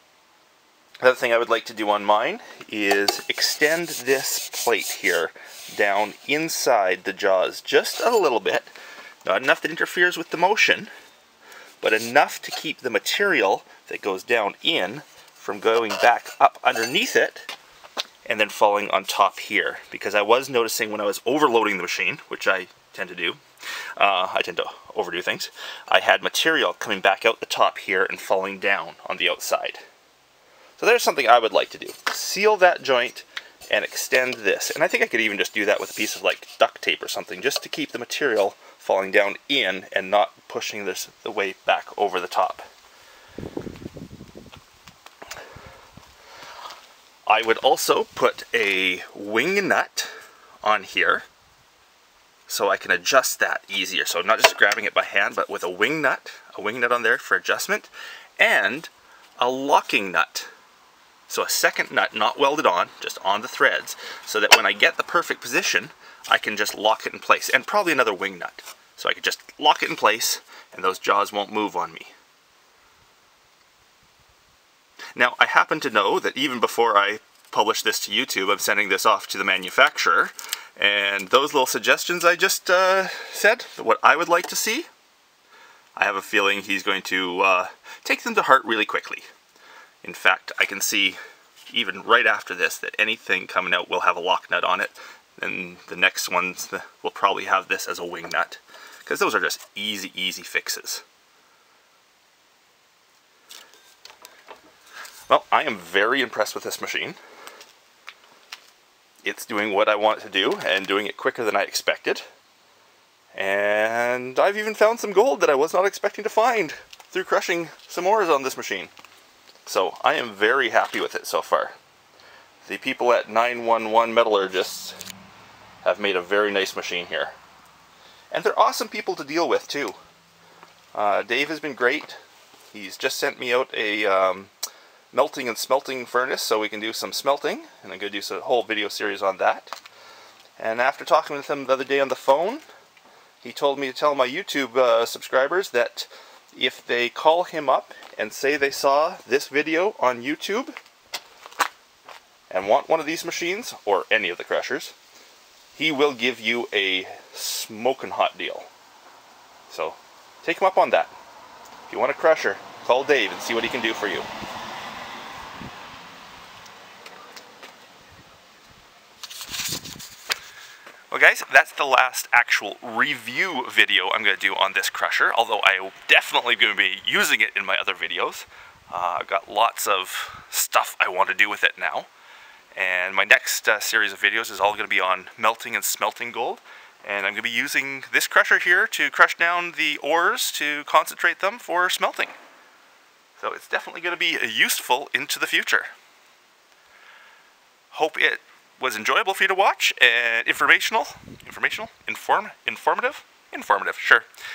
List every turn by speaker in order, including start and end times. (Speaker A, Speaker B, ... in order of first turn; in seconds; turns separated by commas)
Speaker A: 1.0-8.7, Speaker A: 9.2-10.9, Speaker A: 11.8-17.5, Speaker A: 18.2-23.4, Speaker A: 23.9-29.8, Speaker A: 30.8-42.6, Speaker A: 47.2-51.2, Speaker A: 52.5-60.5, Speaker A: 61.3-72.1, Speaker A: 75.1-84.9, Speaker A: 86.0-89.3, Speaker A: 90.0-101.0, Speaker A: 105.3-107.2, Speaker A: 109.2-112.2, Speaker A: 113.3-118.9, Speaker A: 119.6-121.8, Speaker A: 122.6-125.0, Speaker A: 125.8-127.3, Speaker A: 128.3-130.0, Speaker A: 130.9-132.2, Speaker A: 132.7-134.5, Speaker A: 135.1-139.8, Speaker A: 140.6-142.6, Speaker A: 143.4-150.8, Speaker A: 152.5-154.9, Speaker A: 155.8-158.7, Speaker A: 159.7-161.1, Speaker A: 161.9-164.3, Speaker A: 171.1-182.1, Speaker A: 182.8-192.4, Speaker A: 193.4-195.9, Speaker A: 197.9-204.2